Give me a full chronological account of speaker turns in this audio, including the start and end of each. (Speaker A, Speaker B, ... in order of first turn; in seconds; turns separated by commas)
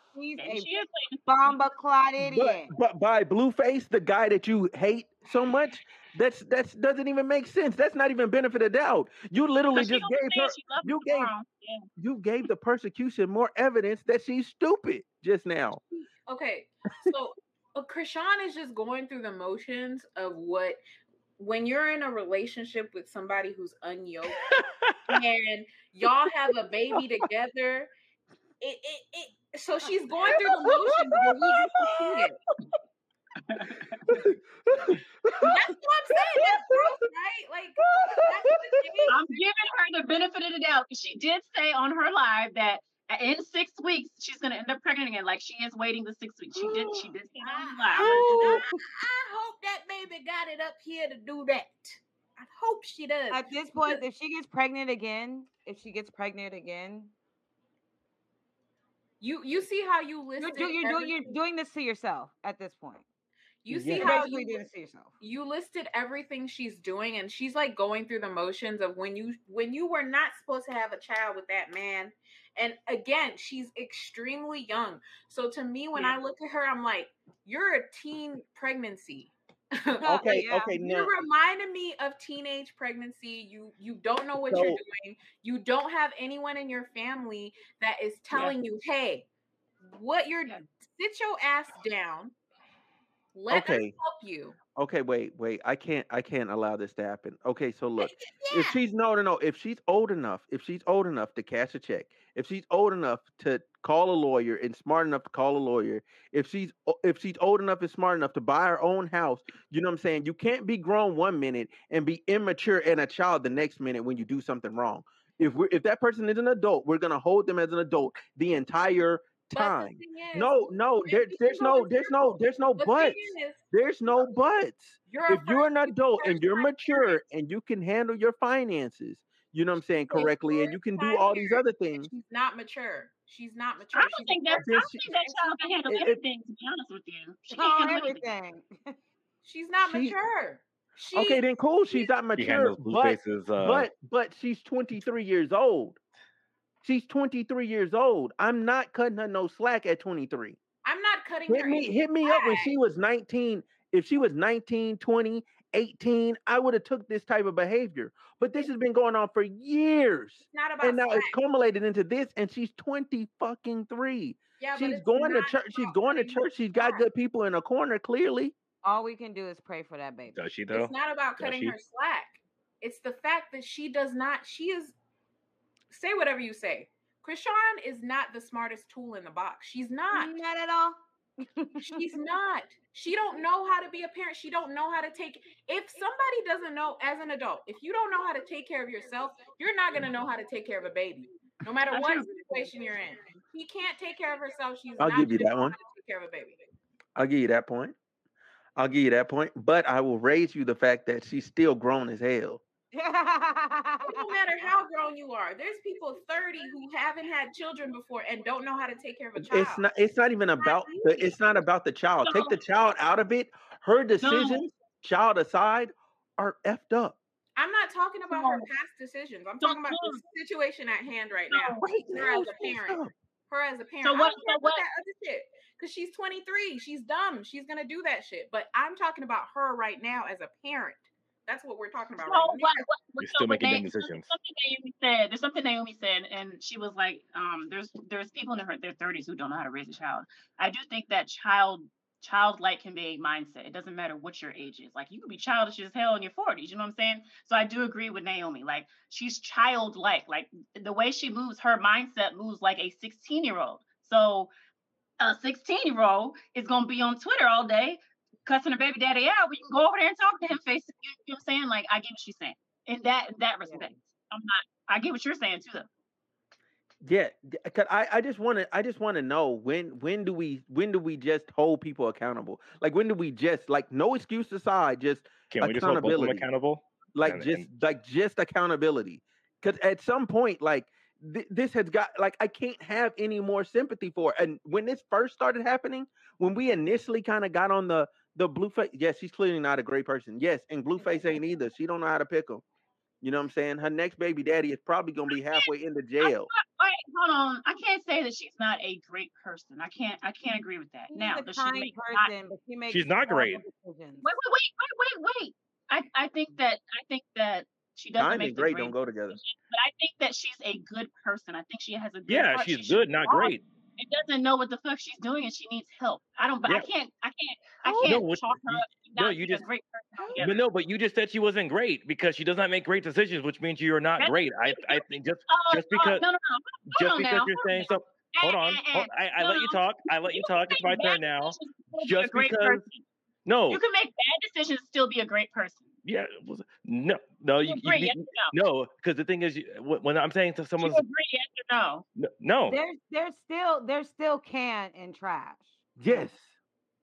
Speaker A: 0.1-0.7, Speaker B: 0.4-1.5, Speaker A: 1.2-2.7, Speaker C: 2.2-11.3, Speaker B: 9.7-11.9, Speaker C: 12.0-15.8, Speaker D: 16.3-20.8, Speaker D: 21.4-24.6, Speaker E: 24.5-25.1, Speaker D: 25.1-27.9, Speaker D: 28.6-32.4, Speaker C: 30.2-31.9, Speaker B: 33.5-34.0, Speaker C: 34.1-35.6, Speaker D: 35.4-39.4, Speaker C: 36.4-36.9, Speaker C: 37.8-39.1, Speaker B: 39.1-48.6, Speaker D: 46.5-54.0, Speaker C: 48.0-48.7, Speaker A: 48.2-48.5, Speaker A: 53.3-57.1, Speaker D: 59.2-61.4, Speaker A: 60.4-63.0, Speaker D: 63.6-64.6, Speaker C: 63.7-64.2, Speaker A: 63.9-65.1, Speaker D: 65.2-89.2, Speaker A: 80.0-80.7, Speaker C: 80.0-81.1, Speaker C: 84.5-84.8, Speaker D: 89.8-92.3, Speaker D: 93.3-94.6, Speaker C: 93.5-93.9, Speaker C: 94.7-132.1, Speaker D: 98.0-98.8, Speaker D: 119.5-123.6, Speaker D: 125.1-127.2, Speaker D: 130.1-135.8, Speaker B: 133.9-138.2, Speaker C: 134.5-135.0, Speaker C: 135.9-136.2, Speaker A: 137.5-138.9, Speaker D: 139.4-142.1, Speaker C: 139.8-140.2, Speaker C: 141.1-146.0, Speaker E: 142.3-143.9, Speaker C: 146.8-150.6, Speaker D: 150.8-152.7, Speaker C: 151.5-168.5, Speaker D: 160.5-161.4, Speaker D: 164.6-167.0, Speaker A: 168.8-170.3, Speaker E: 170.3-171.8, Speaker D: 170.7-174.9, Speaker D: 175.9-180.3, Speaker A: 180.1-181.0, Speaker A: 181.6-181.9, Speaker D: 181.8-196.6, Speaker B: 191.9-192.7, Speaker C: 195.0-195.8, Speaker C: 197.2-197.9, Speaker C: 198.8-202.6, Speaker A: 202.9-204.3, Speaker D: 204.1-209.8, Speaker C: 209.4-217.2, Speaker D: 210.6-211.3, Speaker B: 212.2-212.5, Speaker B: 214.2-214.7, Speaker D: 217.6-232.8, Speaker B: 218.3-218.7, Speaker B: 219.6-220.2, Speaker B: 221.5-222.1, Speaker C: 221.9-223.1, Speaker B: 224.0-224.8, Speaker B: 232.2-254.5, Speaker E: 233.2-234.3, Speaker B: 255.2-265.9, Speaker A: 263.6-263.9, Speaker C: 267.0-276.4, Speaker E: 275.5-277.6, Speaker C: 277.1-292.6, Speaker C: 293.2-296.5, Speaker B: 295.3-295.7, Speaker B: 296.2-302.3, Speaker A: 301.1-304.3, Speaker E: 302.9-303.6, Speaker B: 304.2-320.6, Speaker C: 308.2-309.4, Speaker E: 312.3-313.6, Speaker C: 317.9-318.2, Speaker E: 318.0-319.6, Speaker E: 320.4-326.2, Speaker B: 324.2-333.0, Speaker E: 326.9-332.8, Speaker E: 333.4-333.8, Speaker B: 333.7-335.9, Speaker E: 336.0-341.0, Speaker B: 337.6-338.6, Speaker B: 340.8-342.1, Speaker E: 342.2-342.8, Speaker A: 342.7-346.3, Speaker C: 346.0-346.5